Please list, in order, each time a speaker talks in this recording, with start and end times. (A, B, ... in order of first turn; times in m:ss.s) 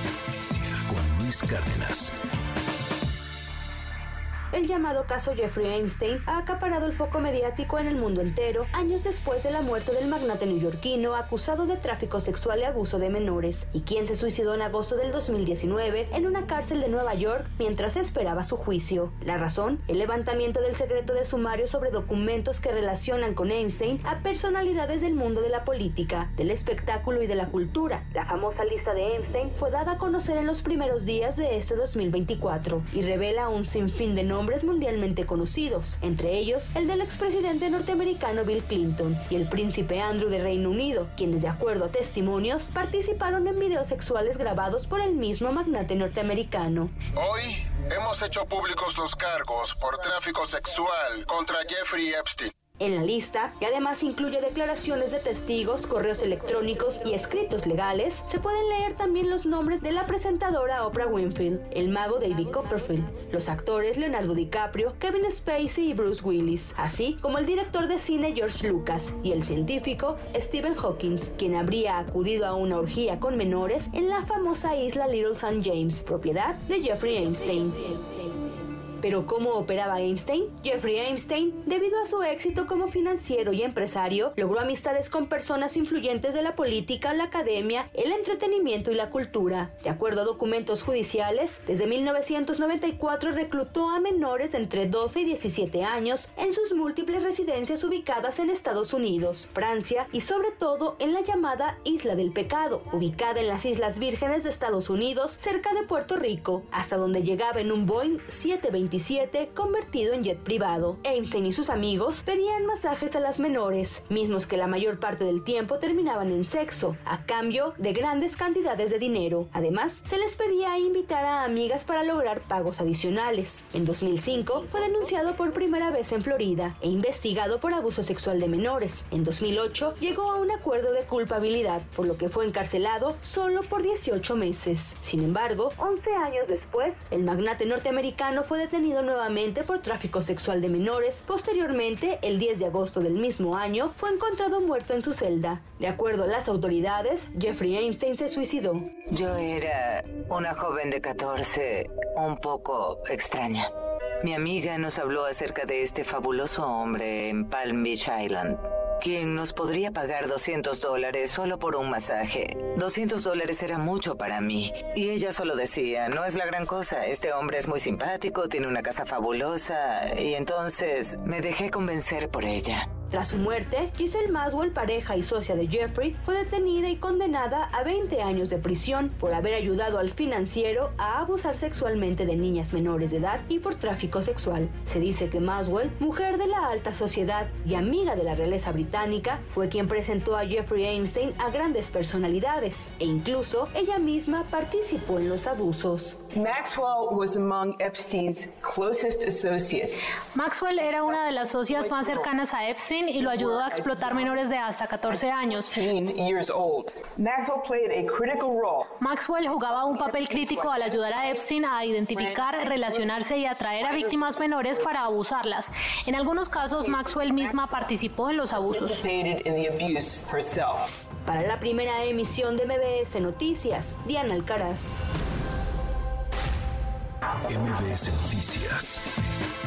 0:00.9-0:02.1 A
0:04.5-0:46.9 B
0:47.2-0:52.5 C
0:52.8-1:18.0 B
1:19.0-2:28.9 B
2:29.1-2:52.9 D
2:53.1-3:16.2 B
3:16.3-3:20.0 E
3:20.3-3:25.8 F
3:21.1-3:22.3 E
3:23.2-3:24.4 E
3:25.0-3:28.9 E
3:29.0-3:39.0 F
3:29.7-3:31.5 E
3:32.1-3:33.2 E
3:33.8-3:34.9 E
3:36.8-3:37.9 E
3:38.6-3:40.9 E
3:41.2-3:45.0 B
3:47.5-3:49.0 A